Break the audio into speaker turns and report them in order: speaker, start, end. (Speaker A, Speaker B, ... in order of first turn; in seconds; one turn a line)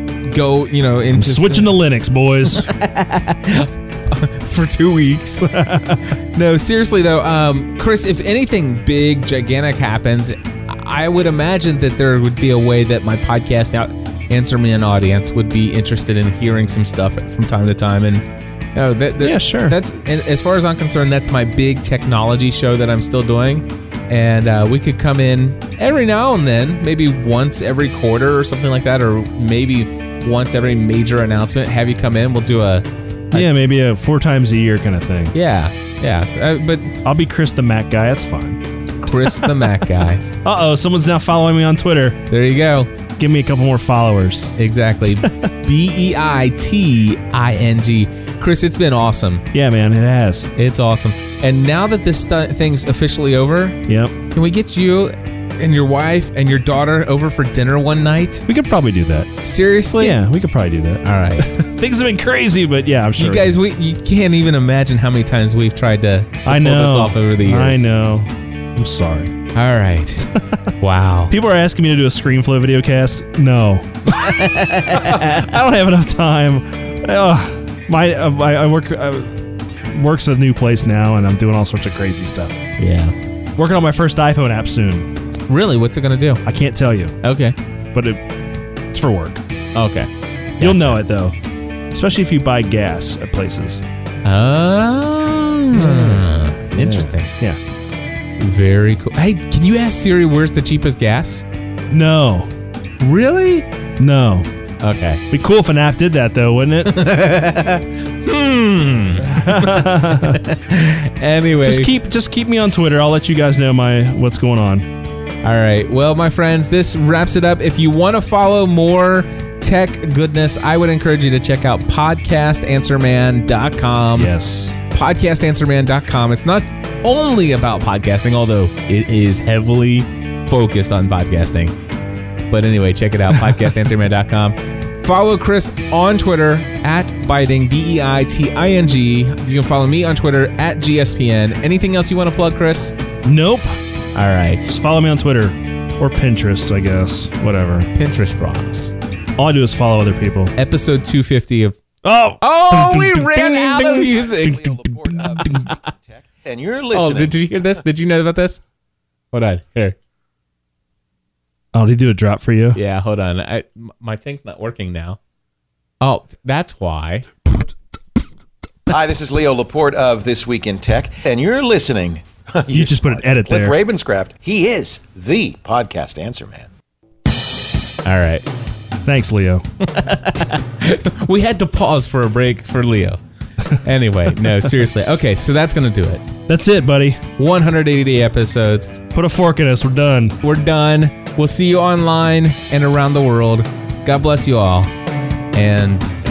Speaker A: 0.2-1.7
Speaker B: 1.1-2.7
Speaker A: 2.5-33.5
Speaker B: 5.5-6.0
Speaker B: 19.2-19.8
Speaker B: 33.3-35.3
Speaker A: 35.3-37.0
Speaker B: 37.0-38.6
Speaker A: 39.0-40.2
Speaker B: 39.2-39.9
Speaker B: 40.4-42.2
Speaker A: 42.3-42.9
Speaker B: 43.2-44.6
Speaker A: 44.6-49.5
Speaker B: 45.2-45.5
Speaker B: 49.5-50.5
Speaker A: 50.6-53.8
Speaker B: 53.9-54.1
Speaker A: 54.3-58.5
Speaker B: 58.5-59.3
Speaker A: 59.4-60.2
Speaker B: 60.0-63.5
Speaker A: 61.0-61.5
Speaker A: 63.2-67.9
Speaker B: 66.5-69.3
Speaker A: 69.5-70.3
Speaker B: 70.3-70.7
Speaker A: 70.8-71.3
Speaker B: 71.3-79.3
Speaker A: 74.0-75.5
Speaker B: 79.9-82.7
Speaker A: 82.8-83.2
Speaker B: 83.6-85.1
Speaker A: 85.5-86.4
Speaker B: 86.5-87.2
Speaker A: 87.2-87.5
Speaker B: 87.9-88.2
Speaker B: 88.9-89.4
Speaker A: 89.8-91.0
Speaker B: 90.6-91.3
Speaker B: 91.9-93.8
Speaker A: 94.2-97.4
Speaker B: 95.7-97.6
Speaker A: 98.4-101.5
Speaker B: 101.9-102.5
Speaker A: 103.0-103.7
Speaker B: 104.0-104.5
Speaker A: 104.8-105.2
Speaker B: 105.3-107.1
Speaker A: 106.8-111.9
Speaker B: 109.2-110.4
Speaker B: 111.6-114.9
Speaker A: 115.4-124.3
Speaker B: 124.2-124.8
Speaker A: 124.9-131.7
Speaker A: 132.5-142.9
Speaker B: 143.2-143.8
Speaker A: 144.2-144.7
Speaker B: 144.7-147.9
Speaker A: 147.9-148.9
Speaker B: 149.4-150.6
Speaker A: 150.6-151.8
Speaker B: 152.0-154.1
Speaker A: 152.4-155.8
Speaker C: 153.5-157.4
Speaker B: 154.7-155.7
Speaker A: 156.9-158.6
Speaker A: 159.3-160.0
Speaker B: 161.7-162.8
Speaker A: 162.7-165.2
Speaker A: 166.0-167.3
Speaker B: 167.5-167.7
Speaker C: 168.9-176.7
Speaker B: 172.7-173.8
Speaker A: 178.0-178.5
Speaker B: 179.1-179.7
Speaker A: 179.8-183.2
Speaker A: 183.8-186.2
Speaker B: 186.5-187.2
Speaker A: 187.4-188.9
Speaker B: 189.1-190.4
Speaker A: 190.4-194.9
Speaker A: 195.5-196.1